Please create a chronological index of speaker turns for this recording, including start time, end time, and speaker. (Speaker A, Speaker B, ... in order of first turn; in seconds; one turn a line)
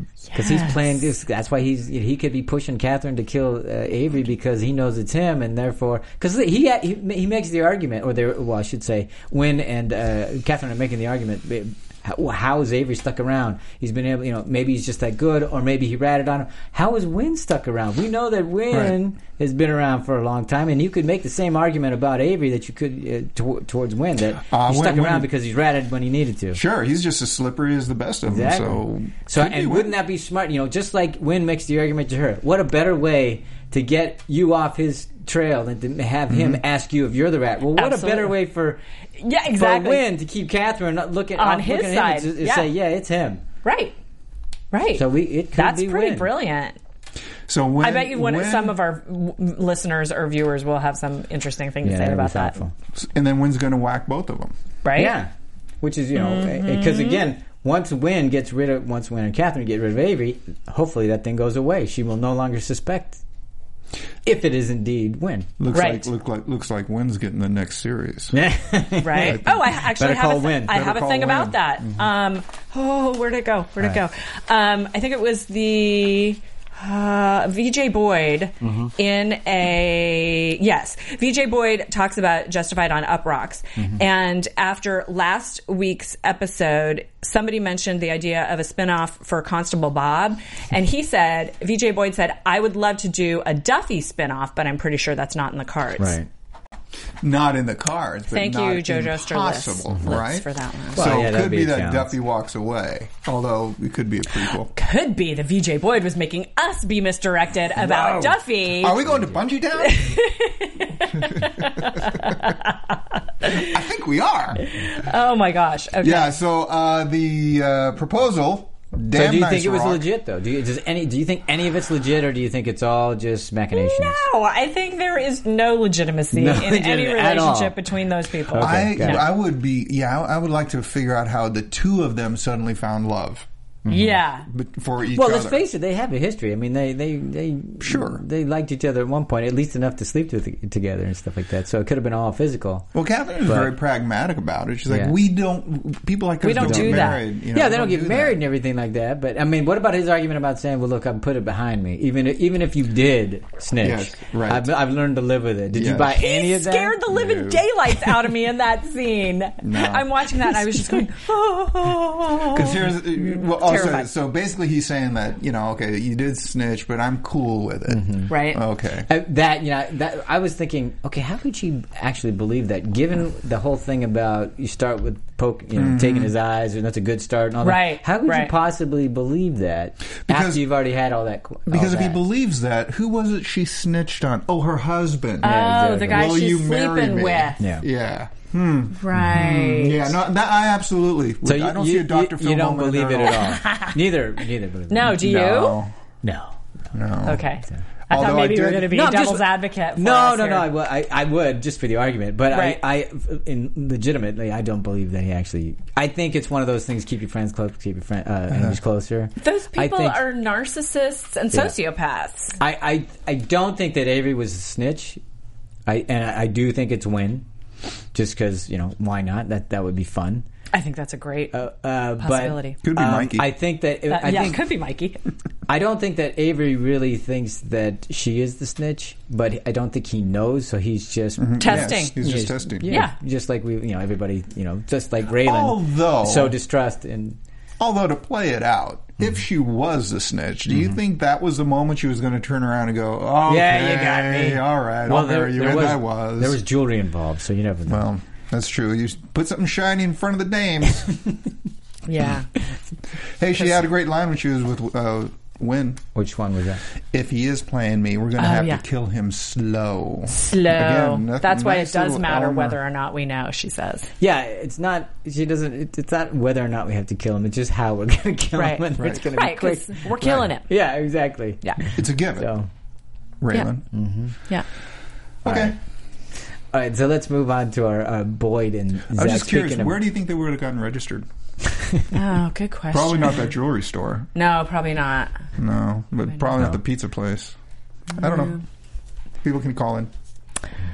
Speaker A: 0.3-0.9
Speaker B: 0.3-26.6
Speaker C: 18.7-18.9
Speaker C: 24.4-25.3
Speaker C: 26.5-29.9
Speaker B: 28.2-38.8
Speaker C: 36.3-36.6
Speaker A: 37.8-38.4
Speaker A: 39.2-40.0
Speaker B: 39.5-43.4
Speaker A: 41.4-42.7
Speaker A: 43.6-43.9
Speaker A: 44.7-46.8
Speaker B: 44.9-46.3
Speaker C: 47.5-48.8
Speaker A: 47.8-52.6
Speaker B: 51.8-52.7
Speaker C: 52.9-54.5
Speaker A: 54.8-55.1
Speaker B: 55.0-55.3
Speaker B: 55.8-63.2
Speaker A: 56.1-57.2
Speaker B: 64.2-65.5
Speaker C: 65.6-68.3
Speaker A: 65.7-66.1
Speaker B: 68.3-71.0
Speaker A: 69.0-96.2
Speaker C: 69.2-69.5
Speaker C: 70.7-72.1
Speaker B: 78.6-78.9
Speaker B: 83.8-84.0
Speaker B: 96.0-96.3
Speaker C: 97.2-104.7
Speaker A: 98.3-101.2
Speaker B: 100.9-102.1
Speaker A: 104.7-109.0
Speaker C: 107.7-110.1
Speaker B: 109.1-109.4
Speaker A: 109.8-112.8
Speaker A: 113.4-113.7
Speaker C: 113.4-114.6
Speaker A: 114.6-116.3
Speaker C: 116.0-120.0
Speaker B: 119.0-124.2
Speaker A: 123.7-129.3
Speaker B: 126.3-127.7
Speaker B: 128.5-129.2
Speaker C: 128.6-133.5
Speaker B: 133.8-134.2
Speaker A: 133.9-134.4
Speaker C: 134.5-135.6
Speaker B: 135.1-142.9
Speaker C: 137.8-138.2
Speaker C: 142.9-148.4
Speaker B: 143.4-143.7
Speaker B: 144.9-145.1
Speaker A: 146.4-147.2
Speaker B: 146.6-157.0
Speaker C: 153.8-154.7
Speaker C: 155.7-156.2
Speaker A: 156.1-164.1
Speaker C: 157.1-157.6
Speaker C: 159.6-160.8
Speaker C: 162.5-169.1
Speaker B: 167.9-168.3
Speaker A: 168.3-168.6
Speaker B: 169.1-182.2
Speaker C: 175.8-176.3
Speaker A: 177.6-178.5
Speaker C: 180.3-180.6
Speaker C: 181.7-185.5
Speaker B: 185.4-186.3
Speaker A: 185.4-187.6
Speaker C: 186.1-193.5
Speaker B: 187.6-187.8
Speaker A: 189.0-190.2
Speaker B: 191.4-195.2
Speaker A: 193.4-193.9
Speaker A: 194.9-195.8
Speaker C: 195.0-195.9
Speaker B: 196.2-196.6
Speaker C: 196.9-197.5
Speaker A: 197.2-200.7
Speaker C: 198.1-198.9
Speaker B: 198.9-210.2
Speaker A: 202.5-202.8
Speaker C: 208.5-208.8
Speaker A: 209.4-212.6
Speaker B: 212.6-215.2
Speaker B: 215.8-217.4
Speaker B: 218.1-220.4
Speaker A: 220.7-221.6
Speaker B: 221.5-224.6
Speaker A: 222.2-222.8
Speaker C: 222.8-223.5
Speaker A: 224.1-225.2
Speaker B: 225.7-237.4
Speaker C: 231.4-232.9
Speaker A: 231.6-232.1
Speaker A: 232.9-233.1
Speaker C: 235.4-236.6
Speaker C: 237.8-246.6
Speaker B: 243.4-248.1
Speaker C: 247.9-251.2
Speaker A: 252.1-252.5
Speaker C: 253.4-256.0
Speaker B: 256.1-256.8
Speaker C: 257.1-262.8
Speaker A: 258.4-258.8
Speaker A: 260.4-264.1
Speaker B: 264.2-272.7
Speaker A: 268.5-270.7
Speaker C: 270.2-270.5
Speaker C: 271.9-272.5
Speaker C: 273.4-273.8
Speaker B: 273.9-274.3
Speaker C: 275.4-275.8
Speaker B: 275.4-275.7
Speaker B: 276.7-280.0
Speaker C: 279.1-281.2
Speaker B: 281.7-282.0
Speaker A: 282.1-283.5
Speaker C: 282.9-284.3
Speaker A: 284.3-285.3
Speaker C: 285.6-287.6
Speaker C: 288.2-288.6
Speaker A: 288.2-288.5
Speaker C: 289.4-290.1